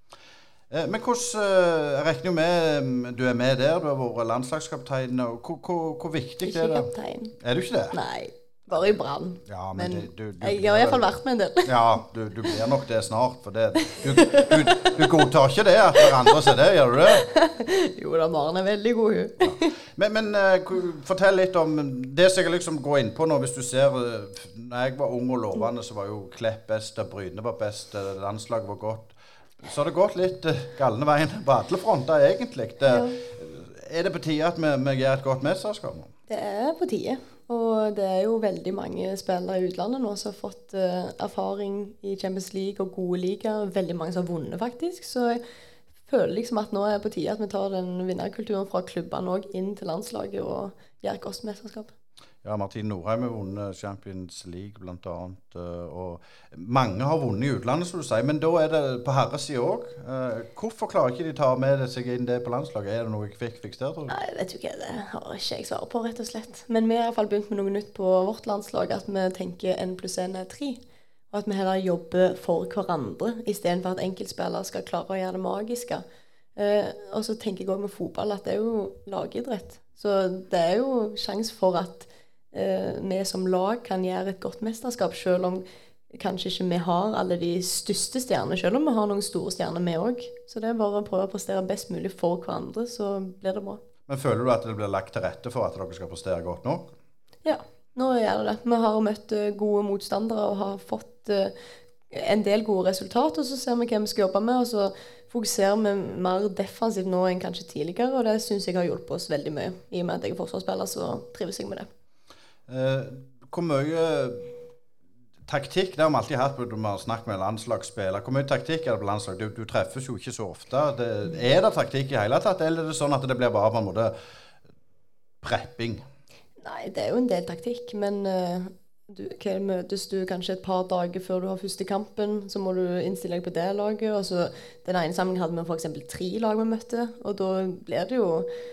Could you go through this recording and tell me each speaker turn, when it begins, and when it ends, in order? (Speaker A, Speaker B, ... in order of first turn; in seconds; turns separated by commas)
Speaker A: 0.7-8.0, Speaker B: 6.5-7.4, Speaker B: 7.9-11.7, Speaker A: 9.5-11.1, Speaker A: 11.6-17.3, Speaker B: 14.1-14.9, Speaker B: 17.2-19.7, Speaker A: 19.4-36.1, Speaker B: 32.9-33.2, Speaker B: 36.3-45.4, Speaker B: 46.1-51.9, Speaker A: 52.4-64.1, Speaker B: 64.1-70.8, Speaker B: 71.3-76.0, Speaker B: 76.6-93.8, Speaker A: 94.1-96.9, Speaker B: 97.5-101.5, Speaker B: 102.1-111.9, Speaker A: 112.7-114.5, Speaker A: 115.5-124.2, Speaker A: 125.4-126.1, Speaker B: 126.6-138.5